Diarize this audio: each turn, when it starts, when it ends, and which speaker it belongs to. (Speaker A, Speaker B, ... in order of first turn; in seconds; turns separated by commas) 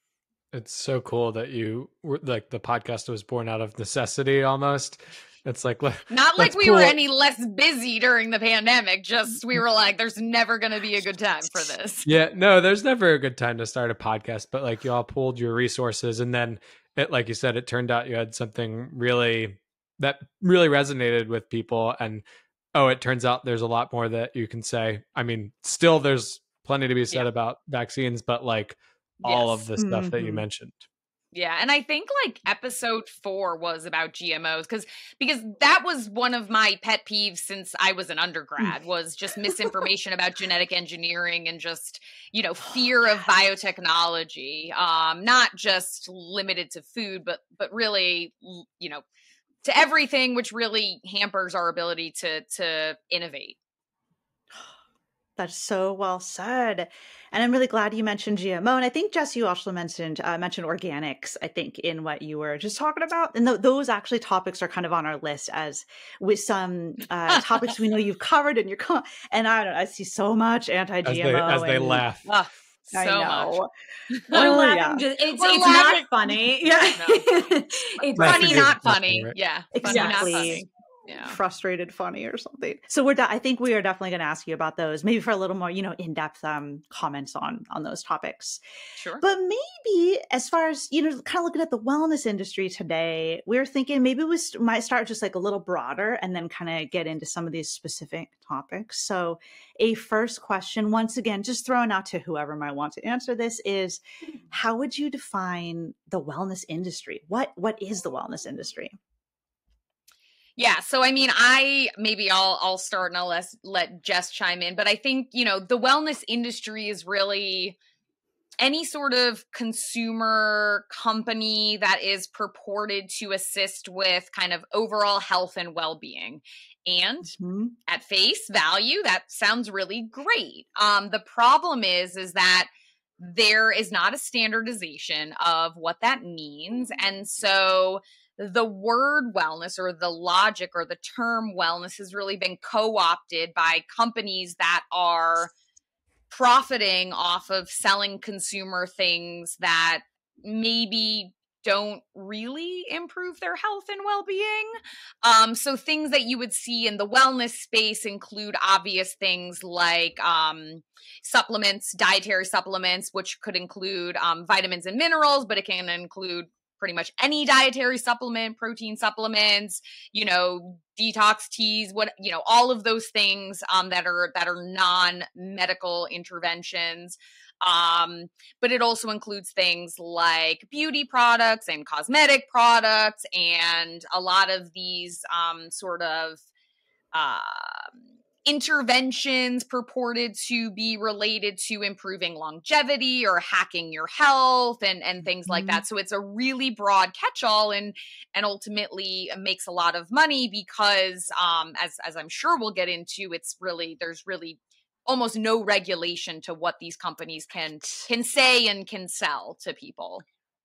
Speaker A: 0.5-7.0, Speaker B: 6.1-12.1, Speaker A: 12.1-30.9, Speaker B: 29.2-29.6, Speaker C: 29.8-30.4, Speaker B: 31.3-49.0, Speaker B: 49.6-53.5, Speaker C: 55.4-72.0, Speaker A: 71.0-72.3, Speaker B: 72.2-73.6, Speaker C: 72.9-73.7, Speaker C: 74.3-75.0, Speaker D: 74.3-78.8, Speaker B: 75.3-76.1, Speaker B: 76.9-81.3, Speaker A: 78.2-79.3, Speaker C: 79.8-80.6, Speaker D: 79.9-80.6, Speaker C: 81.2-88.6, Speaker C: 89.2-104.0, Speaker C: 104.5-108.9, Speaker B: 110.6-117.8, Speaker B: 118.6-127.3, Speaker C: 127.2-127.8, Speaker B: 127.9-145.5, Speaker B: 146.3-186.4, Speaker B: 187.1-187.9, Speaker B: 188.4-210.2, Speaker C: 195.4-195.8